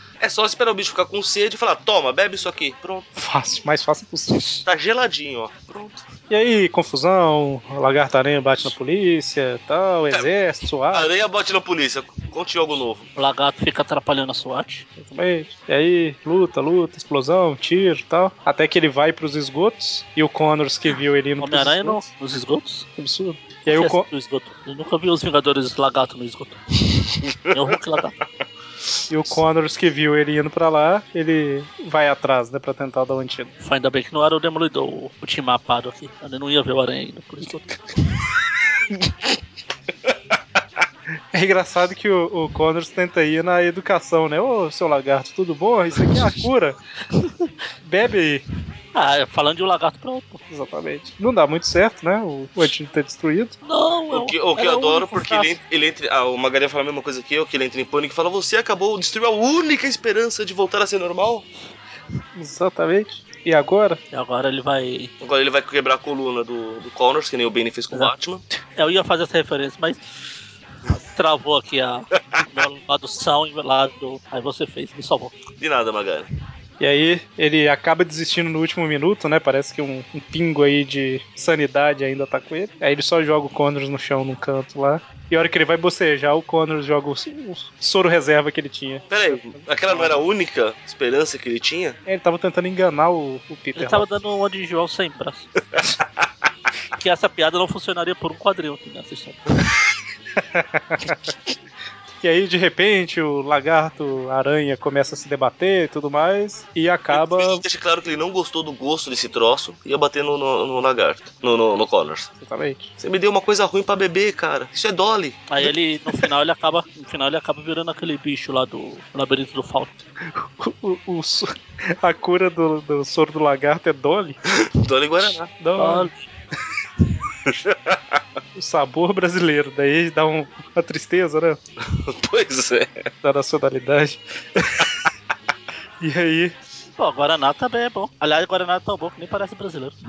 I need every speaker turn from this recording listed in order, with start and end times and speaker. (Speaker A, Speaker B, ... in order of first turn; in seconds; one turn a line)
Speaker A: 0.2-3.1
Speaker B: 3.2-4.6
Speaker A: 4.6-6.0
Speaker B: 6.3-11.1
Speaker A: 10.9-13.1
Speaker C: 13.2-14.9
Speaker B: 15.0-22.0
Speaker C: 21.4-22.9
Speaker B: 23.0-24.1
Speaker C: 23.7-26.6
Speaker C: 27.5-28.2
Speaker B: 29.1-33.5
Speaker C: 33.6-37.7
Speaker B: 41.3-46.8
Speaker C: 47.2-47.5
Speaker B: 47.8-48.4
Speaker C: 49.0-50.4
Speaker B: 50.5-53.5
Speaker C: 53.7-55.5
Speaker A: 54.1-61.5
Speaker B: 62.4-64.0
Speaker C: 64.1-65.1
Speaker A: 65.2-68.4
Speaker C: 68.8-70.0
Speaker C: 70.9-75.4
Speaker A: 75.6-76.3
Speaker B: 76.8-89.6
Speaker A: 89.1-92.0
Speaker B: 92.0-94.0
Speaker C: 93.8-95.5
Speaker C: 97.0-99.4
Speaker B: 100.4-101.3
Speaker B: 102.2-107.6
Speaker A: 107.1-112.3
Speaker B: 112.4-112.9
Speaker A: 113.0-115.5
Speaker C: 115.5-120.0
Speaker B: 120.4-124.4
Speaker A: 124.5-125.5
Speaker B: 125.5-126.1
Speaker C: 125.8-126.3
Speaker A: 127.5-128.2
Speaker B: 128.6-131.6
Speaker A: 131.8-133.1
Speaker B: 133.2-135.0
Speaker B: 136.0-136.5
Speaker C: 137.0-139.9